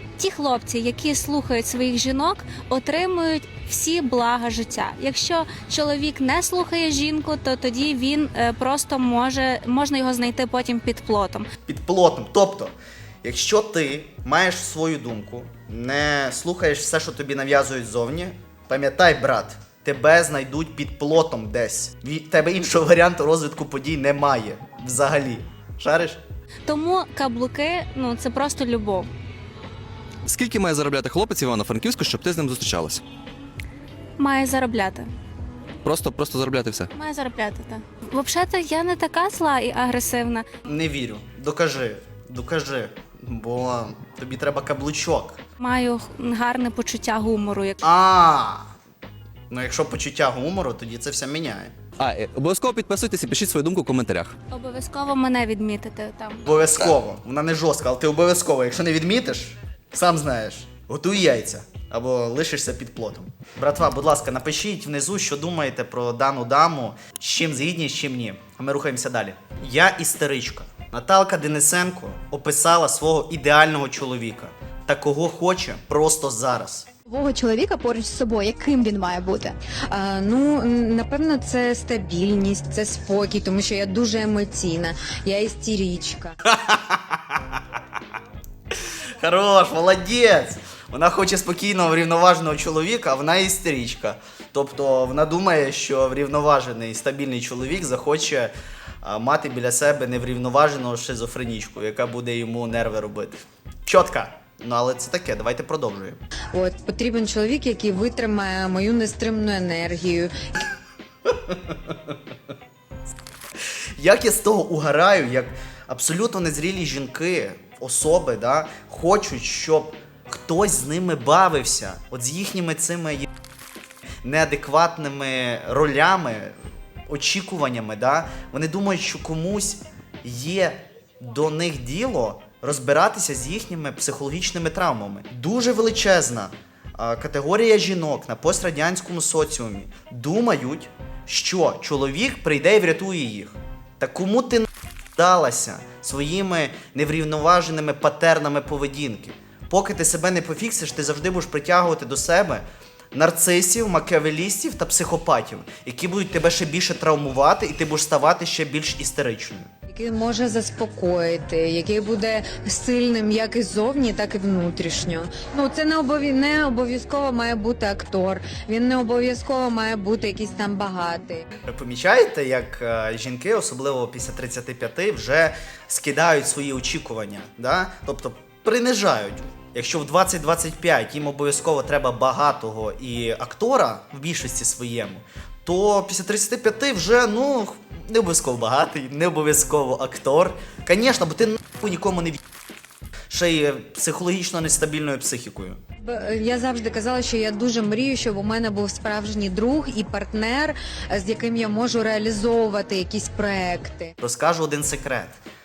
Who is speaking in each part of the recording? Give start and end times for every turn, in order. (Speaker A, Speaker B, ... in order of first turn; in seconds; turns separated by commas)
Speaker A: 0.2-11.5, Speaker B: 11.7-26.2, Speaker A: 26.7-29.1, Speaker C: 30.2-33.0, Speaker A: 34.2-35.1, Speaker C: 35.8-36.9, Speaker A: 36.9-40.5, Speaker B: 40.6-45.4, Speaker A: 45.6-47.8, Speaker B: 47.8-48.7, Speaker B: 49.5-51.8, Speaker C: 52.0-54.4, Speaker A: 54.5-56.5, Speaker B: 56.5-76.9, Speaker D: 77.0-79.6, Speaker E: 79.9-86.3, Speaker B: 86.4-87.6, Speaker B: 88.8-106.2, Speaker E: 106.5-110.3, Speaker B: 111.3-112.0, Speaker B: 113.6-123.3, Speaker B: 124.2-126.5, Speaker B: 127.1-159.7, Speaker E: 159.9-171.4, Speaker B: 171.6-192.4, Speaker B: 193.3-195.8, Speaker E: 196.0-204.1, Speaker B: 204.2-205.4